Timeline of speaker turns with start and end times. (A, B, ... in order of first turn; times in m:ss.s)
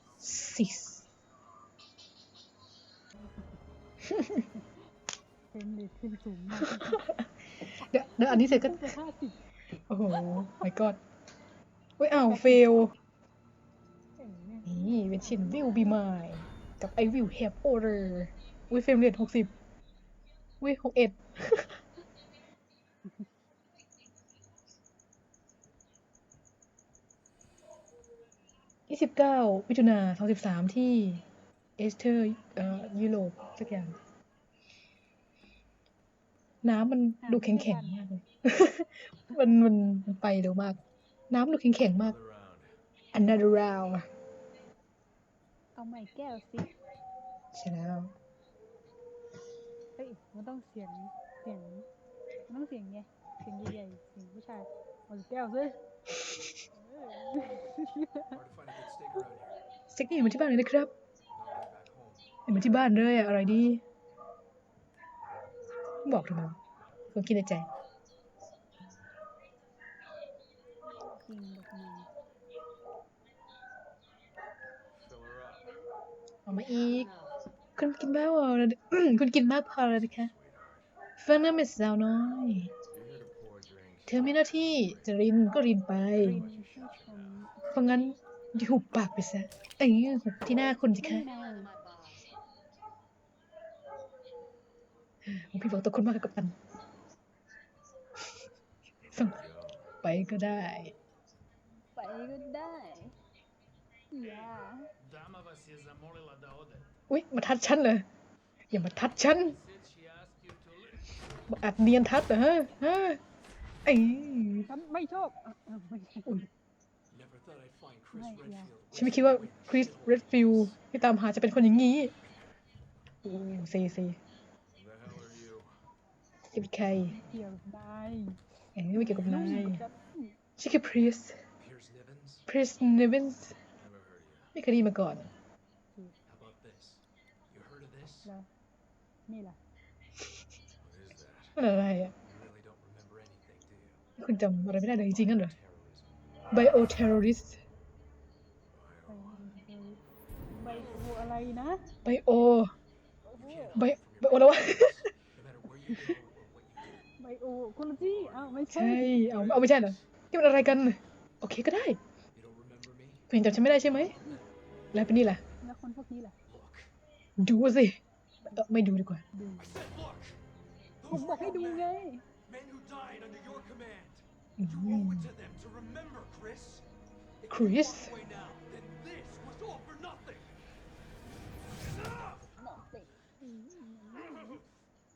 0:00.2-0:01.0 A
0:05.5-0:07.1 B
0:06.6-0:08.9 A
0:08.2-0:09.4 B
0:09.9-0:11.0 A
0:12.0-0:12.9 A
0:12.2-0:12.8 B
0:14.2-0:15.9 B
0:14.6-0:19.5 A
0:20.6-0:21.8 A
0:28.9-0:31.2 A
0:31.8-0:34.0 A
0:36.6-0:40.8 A
0:37.2-0:38.0 B
0:41.3-0:42.2 A
0:42.0-0:42.7 C
0:43.1-0:44.1 A
0:45.7-0:46.7 B
0:47.5-0:48.1 A
0:50.0-0:51.9 B
0:52.5-0:55.8 B
0:56.7-0:58.4 B
0:58.3-0:59.5 C
0:59.9-1:00.9 A
1:01.3-1:02.3 C
1:02.5-1:03.8 A
1:06.0-1:06.6 A
1:07.1-1:07.7 A
1:10.9-1:12.1 B
1:15.0-1:15.7 C
1:16.5-1:17.1 A
1:17.8-1:20.3 A
1:19.9-1:20.9 C
1:21.2-1:22.7 A
1:22.9-1:25.2 C
1:24.1-1:26.4 A
1:26.2-1:27.7 B
1:26.3-1:27.5 C
1:27.7-1:31.3 A
1:31.0-1:31.8 B
1:35.2-1:36.6 A
1:39.1-1:39.8 C
1:39.1-1:39.4 A
1:40.0-1:41.0 A
1:42.0-1:43.2 B
1:44.1-1:44.9 B
1:45.1-1:46.9 D
1:47.1-1:48.0 A
1:48.7-1:49.6 A
1:49.7-1:51.0 D
1:51.5-1:53.2 A
1:53.8-1:54.7 A
1:54.7-1:56.5 B
1:57.1-2:00.8 C
1:58.1-1:58.7 B
1:58.9-2:02.1 A
2:02.3-2:02.6 C
2:03.2-2:04.2 A
2:04.7-2:05.7 C
2:06.5-2:07.2 A
2:07.1-2:08.4 B
2:08.8-2:09.8 A
2:08.9-2:10.4 B
2:10.6-2:11.4 A
2:11.6-2:12.4 C
2:12.5-2:13.6 A
2:13.8-2:14.5 C
2:14.5-2:15.3 A
2:16.3-2:18.3 C
2:19.3-2:19.6 B
2:20.8-2:21.6 C
2:21.6-2:22.1 A
2:22.2-2:24.0 C
2:24.2-2:25.5 A
2:25.1-2:26.1 C
2:26.5-2:27.6 A
2:28.7-2:29.4 C
2:29.1-2:30.0 B
2:30.5-2:31.9 B
2:32.0-2:32.7 A
2:33.2-2:33.9 B
2:33.4-2:37.0 C
2:33.7-2:35.0 A
2:37.2-2:39.2 B
2:38.0-2:40.0 C
2:38.7-2:42.0 A
2:42.3-2:43.3 C
2:43.3-2:44.2 A
2:43.9-2:44.4 C
2:44.9-2:45.4 A
2:45.6-2:46.4 B
2:46.4-2:46.9 C
2:47.4-2:49.2 A
2:49.3-2:49.7 B
2:49.6-2:50.4 C
2:51.0-2:51.9 C
2:51.1-2:52.2 B
2:52.4-2:56.8 C
2:54.6-2:55.3 A
2:57.4-3:00.5 C
2:57.5-2:58.1 A
3:02.0-3:02.5 C
3:02.6-3:04.6 B